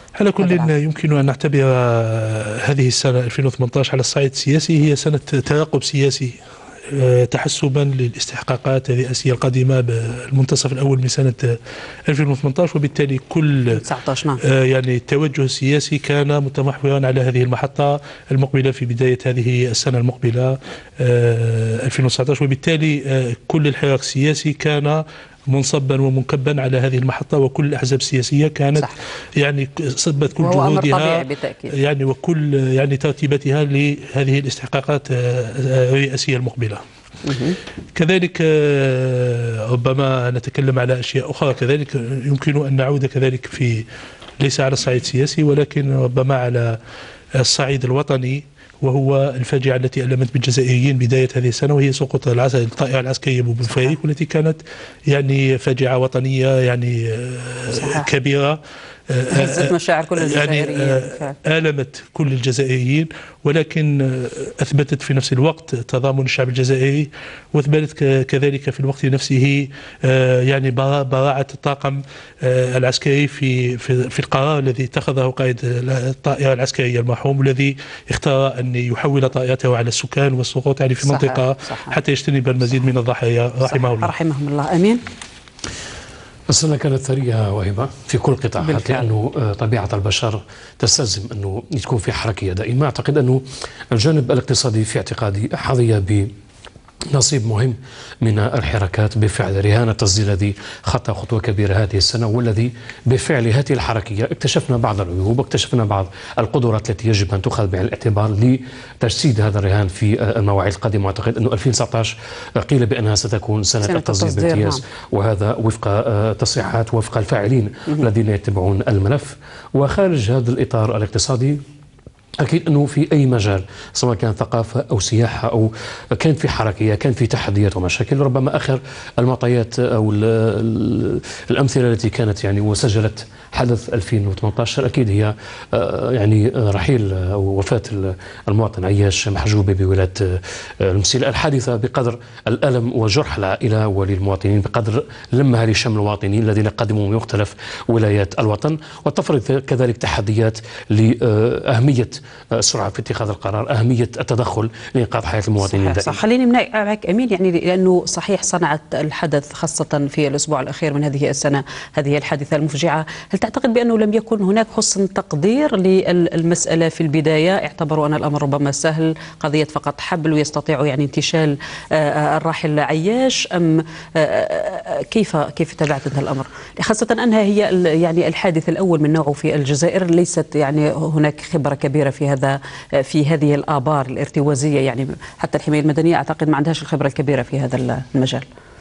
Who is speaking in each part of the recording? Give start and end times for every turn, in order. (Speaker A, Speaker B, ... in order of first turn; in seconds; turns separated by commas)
Speaker A: 0.2-6.4, Speaker B: 0.4-0.7, Speaker A: 6.9-13.8, Speaker B: 13.7-14.4, Speaker A: 14.4-31.2, Speaker B: 30.4-31.7, Speaker A: 31.8-36.8, Speaker B: 37.2-37.6, Speaker A: 38.0-43.9, Speaker A: 44.4-46.8, Speaker A: 47.4-58.6, Speaker B: 53.7-54.0, Speaker B: 57.7-58.1, Speaker A: 59.1-84.1, Speaker B: 59.3-61.4, Speaker B: 81.0-82.0, Speaker B: 83.7-85.0, Speaker C: 86.5-96.3, Speaker B: 88.6-89.1, Speaker C: 97.1-121.6, Speaker B: 113.8-114.8, Speaker C: 122.4-156.2, Speaker B: 155.6-188.5